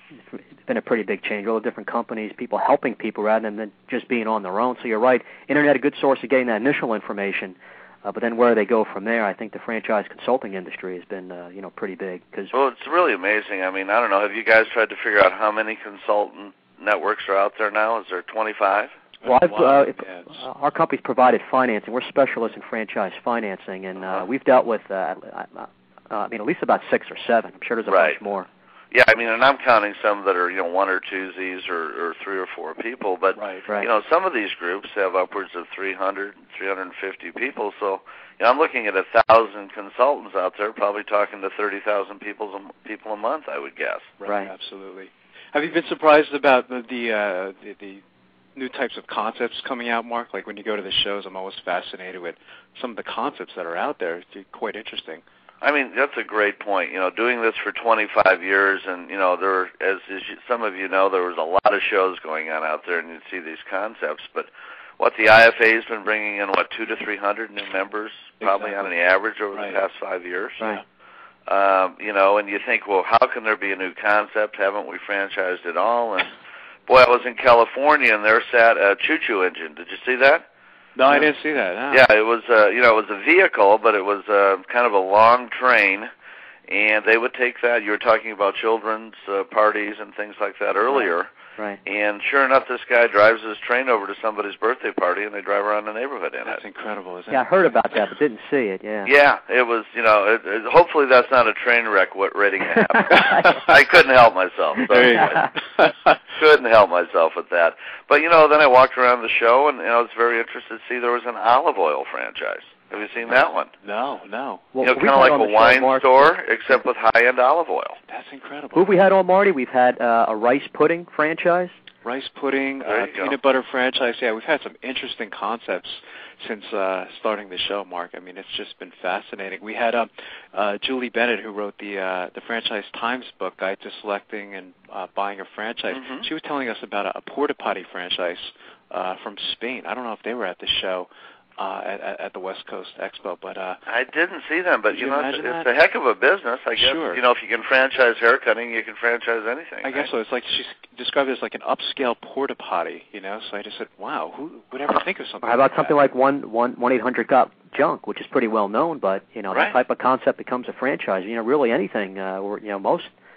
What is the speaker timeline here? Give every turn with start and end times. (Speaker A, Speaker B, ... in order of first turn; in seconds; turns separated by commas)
Speaker A: 0.7-12.5, Speaker B: 12.5-18.9, Speaker C: 19.2-20.3, Speaker A: 19.2-28.5, Speaker B: 27.9-28.2, Speaker B: 28.9-44.1, Speaker C: 33.4-33.7, Speaker C: 44.2-48.0, Speaker A: 44.3-44.5, Speaker C: 48.5-55.2, Speaker B: 55.6-70.6, Speaker C: 68.4-68.9, Speaker C: 69.5-69.8, Speaker B: 71.5-76.3, Speaker B: 76.9-80.4, Speaker C: 81.0-82.0, Speaker B: 81.9-86.1, Speaker B: 86.7-91.3, Speaker A: 90.9-91.8, Speaker B: 91.8-96.6, Speaker C: 96.5-97.5, Speaker A: 97.3-99.1, Speaker B: 99.0-105.5, Speaker C: 103.1-103.8, Speaker C: 104.9-106.2, Speaker B: 106.3-113.7, Speaker C: 113.8-114.7, Speaker A: 114.7-116.3, Speaker B: 114.8-118.0, Speaker C: 118.1-118.9, Speaker A: 118.8-121.8, Speaker C: 122.0-143.8, Speaker B: 122.8-123.4, Speaker B: 135.9-136.2, Speaker B: 143.9-150.1, Speaker C: 144.9-145.7, Speaker C: 146.8-147.2, Speaker C: 149.8-156.0, Speaker A: 155.4-163.1, Speaker B: 159.5-159.8